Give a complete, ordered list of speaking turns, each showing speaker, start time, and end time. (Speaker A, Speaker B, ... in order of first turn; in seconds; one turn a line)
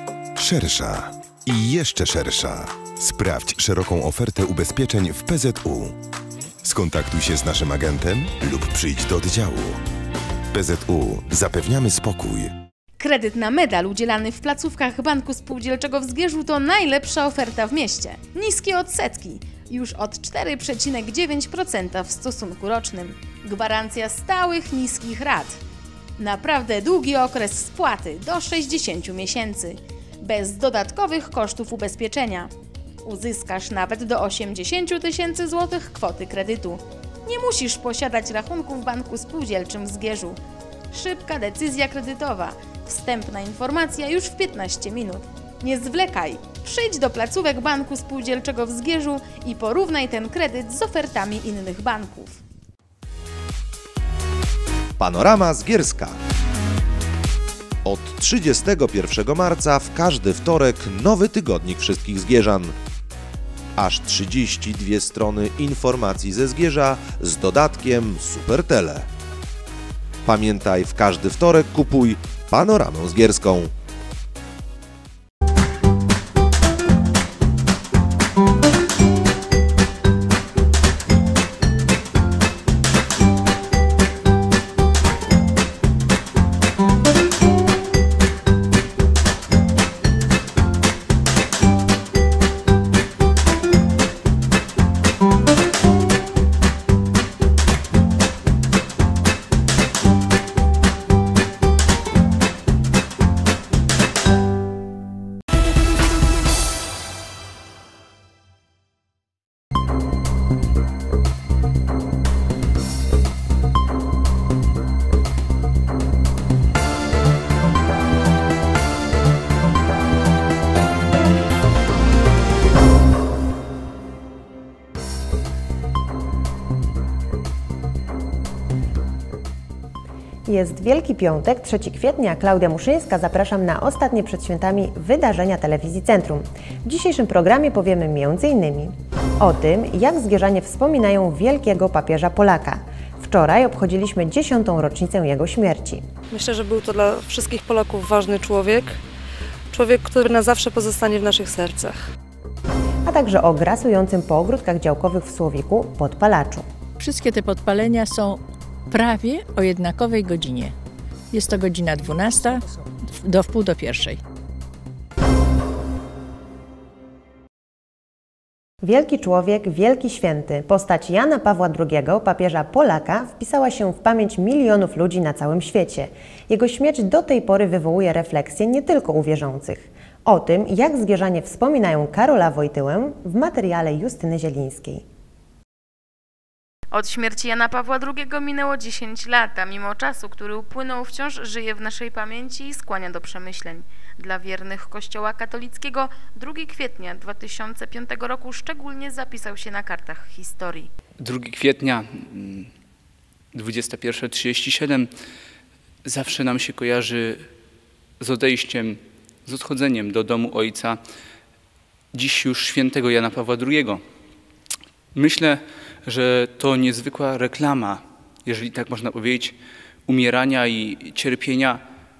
Speaker A: 0.4-5.9
Speaker A: 6.6-9.8
Speaker A: 10.5-12.5
Speaker B: 13.0-25.6
Speaker B: 26.2-32.5
Speaker B: 33.0-40.4
Speaker B: 40.9-52.4
Speaker C: 55.0-56.1
Speaker C: 57.8-62.7
Speaker C: 63.8-69.0
Speaker C: 70.2-73.7
Speaker D: 130.4-146.0
Speaker E: 146.3-149.0
Speaker E: 149.7-152.1
Speaker D: 153.1-156.7
Speaker F: 157.0-160.7
Speaker F: 161.3-164.2
Speaker D: 168.8-185.0
Speaker B: 186.9-200.9
Speaker G: 201.2-202.7
Speaker G: 203.5-205.1
Speaker G: 206.0-207.5
Speaker G: 208.2-211.0
Speaker G: 212.1-214.0
Speaker G: 215.1-219.5
Speaker G: 220.1-221.8